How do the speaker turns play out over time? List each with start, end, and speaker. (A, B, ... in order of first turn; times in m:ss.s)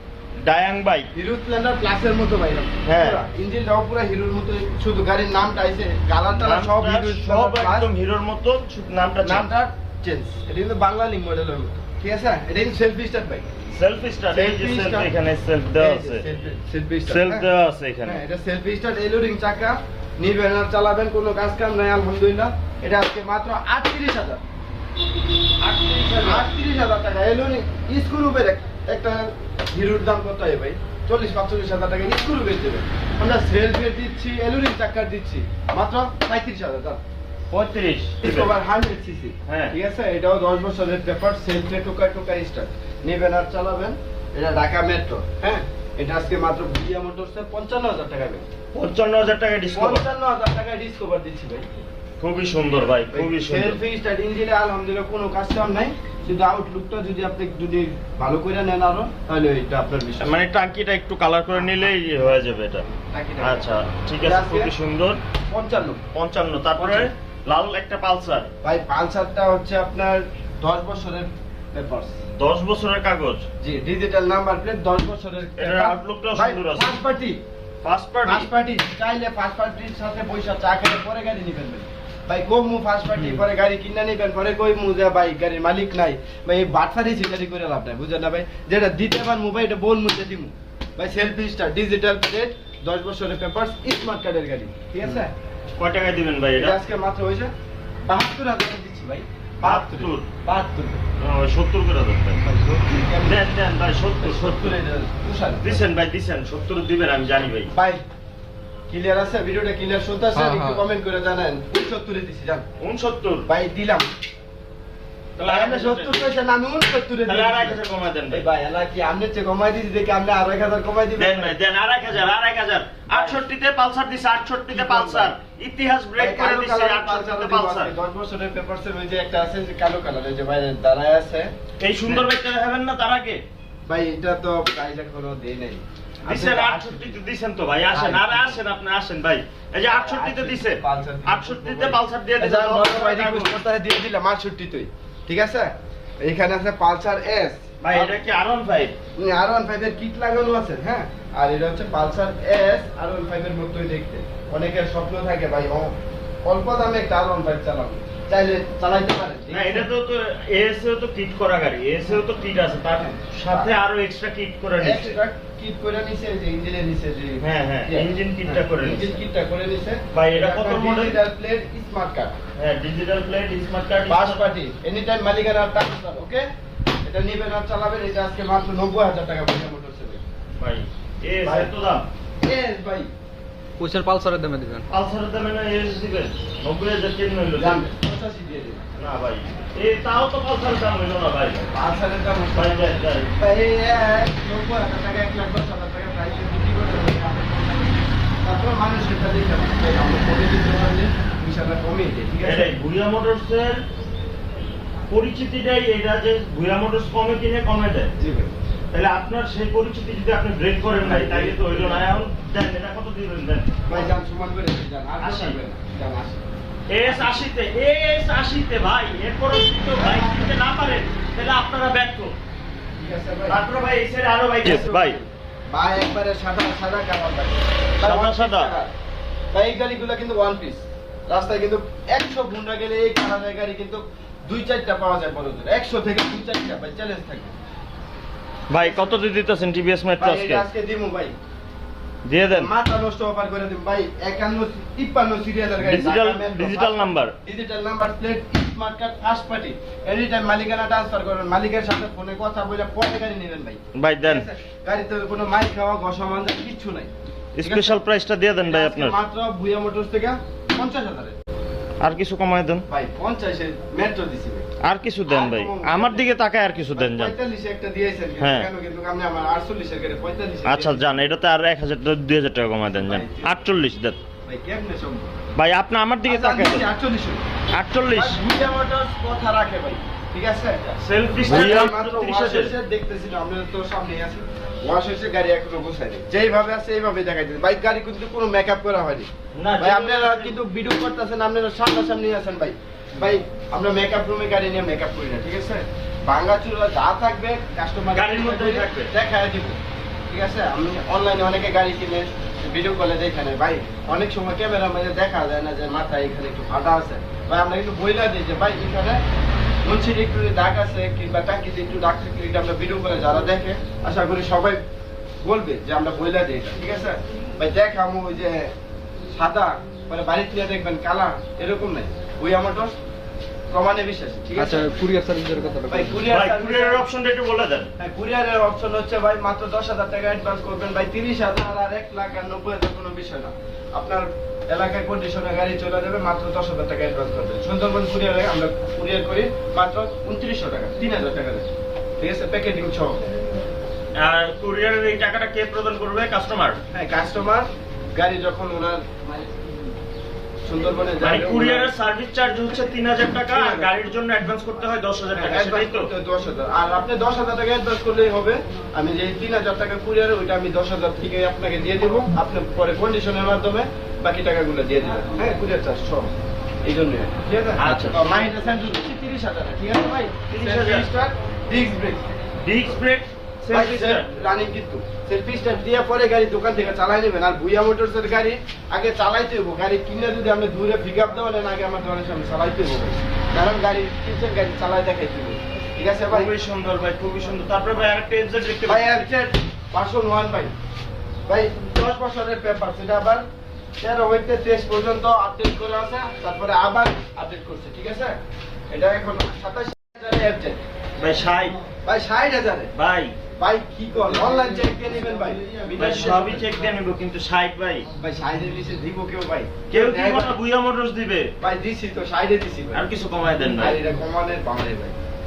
0:00.4-0:01.1 A
0:01.1-0:07.9 B
0:02.9-0:03.2 A
0:06.3-0:09.5 A
0:09.2-0:13.5 B
0:13.8-0:16.2 A
0:14.3-0:15.1 B
0:15.8-0:17.5 B
0:17.1-0:18.2 A
0:18.0-0:24.4 B
0:25.6-0:26.5 A
0:26.2-0:37.0 B
0:37.5-0:38.5 A
0:38.2-0:48.5 B
0:39.5-0:39.8 A
0:48.7-0:50.0 A
0:49.7-0:51.7 B
0:52.2-0:53.8 A
0:53.1-1:00.4 B
1:00.2-1:02.8 A
1:01.6-1:01.9 B
1:03.1-1:04.7 B
1:03.4-1:05.2 A
1:05.5-1:06.0 B
1:06.1-1:08.5 A
1:06.8-1:07.1 B
1:08.6-1:12.2 B
1:12.4-1:13.5 A
1:13.6-1:17.4 B
1:15.6-1:17.0 A
1:17.8-1:18.5 A
1:18.2-1:35.3 B
1:35.8-1:36.8 A
1:36.6-1:37.5 B
1:38.1-1:41.0 B
1:39.6-1:40.3 A
1:41.2-1:42.4 A
1:42.4-1:43.4 B
1:43.2-1:44.8 A
1:44.2-1:45.9 B
1:45.6-1:47.7 A
1:47.7-1:48.0 B
1:48.9-1:52.6 B
1:50.3-1:50.8 C
1:52.8-1:53.5 A
1:53.5-1:54.1 B
1:55.4-1:56.3 A
1:55.4-2:01.6 B
1:57.3-1:58.5 A
2:01.2-2:07.9 A
2:03.1-2:03.4 B
2:04.7-2:05.4 B
2:06.2-2:11.5 B
2:11.8-2:13.4 A
2:12.0-2:12.3 B
2:13.9-2:17.2 B
2:16.3-2:23.6 A
2:17.9-2:18.6 B
2:19.8-2:28.2 B
2:27.8-2:29.0 A
2:29.2-2:39.9 B
2:39.5-2:45.1 A
2:44.8-2:52.4 B
2:47.4-2:49.2 A
2:50.1-2:51.2 A
2:52.6-2:54.4 A
2:54.1-2:56.5 B
2:57.0-3:00.2 B
3:00.6-3:02.1 A
3:01.4-3:01.7 B
3:02.4-3:03.1 B
3:03.8-3:04.9 C
3:04.9-3:07.8 A
3:07.6-3:08.9 B
3:09.0-3:11.7 A
3:11.7-3:22.7 B
3:12.6-3:13.3 A
3:22.4-3:23.8 A
3:25.1-3:28.1 A
3:28.2-3:28.5 B
3:28.9-3:34.1 A
3:30.9-3:32.3 B
3:33.9-3:36.4 B
3:35.2-3:35.6 A
3:36.9-3:42.4 A
3:37.0-3:37.4 B
3:39.9-3:40.6 B
3:43.0-3:43.6 B
3:43.5-3:45.2 A
3:44.6-3:48.9 B
3:48.0-3:48.7 A
3:49.5-3:57.6 B
3:58.7-4:00.7 A
3:58.8-3:59.2 B
4:00.2-4:01.3 B
4:02.3-4:02.7 A
4:02.5-4:18.1 B
4:05.8-4:07.4 A
4:14.0-4:14.5 A
4:17.6-4:19.2 A
4:18.7-4:21.4 B
4:22.0-4:22.8 A
4:22.9-4:24.7 B
4:24.8-4:27.3 A
4:25.3-4:26.3 B
4:27.0-4:31.2 B
4:28.4-4:28.7 A
4:30.6-4:34.2 A
4:32.9-4:33.7 B
4:34.5-4:35.4 B
4:35.6-4:36.9 A
4:36.2-4:37.4 B
4:37.7-4:38.4 A
4:38.1-4:40.8 B
4:40.9-4:42.7 A
4:41.4-4:59.8 B
4:49.6-4:50.6 A
4:58.1-4:59.1 A
5:00.3-5:09.2 B
5:09.8-5:14.8 B
5:15.4-5:18.7 B
5:19.3-5:22.9 B
5:23.7-5:24.9 B
5:24.6-5:26.2 C
5:25.9-5:27.0 B
5:26.3-5:27.9 A
5:28.0-5:41.7 B
5:42.2-5:43.2 B
5:44.2-5:46.8 A
5:46.9-5:49.5 B
5:50.6-5:51.9 B
5:51.2-5:56.1 A
5:53.5-5:54.0 B
5:55.3-6:06.3 B
6:06.8-6:12.3 B
6:07.8-6:08.5 A
6:10.5-6:11.1 A
6:12.6-6:14.3 A
6:13.7-6:26.5 B
6:26.3-6:29.2 A
6:28.9-6:30.7 B
6:31.5-6:33.4 B
6:34.0-6:38.4 B
6:38.9-6:40.8 B
6:41.2-6:41.8 A
6:42.0-6:42.9 B
6:43.0-6:43.4 A
6:43.6-6:46.7 B
6:46.0-6:48.1 A
6:48.2-6:50.6 B
6:49.9-6:51.5 A
6:51.6-6:53.1 B
6:52.9-6:54.0 A
6:53.6-6:55.2 B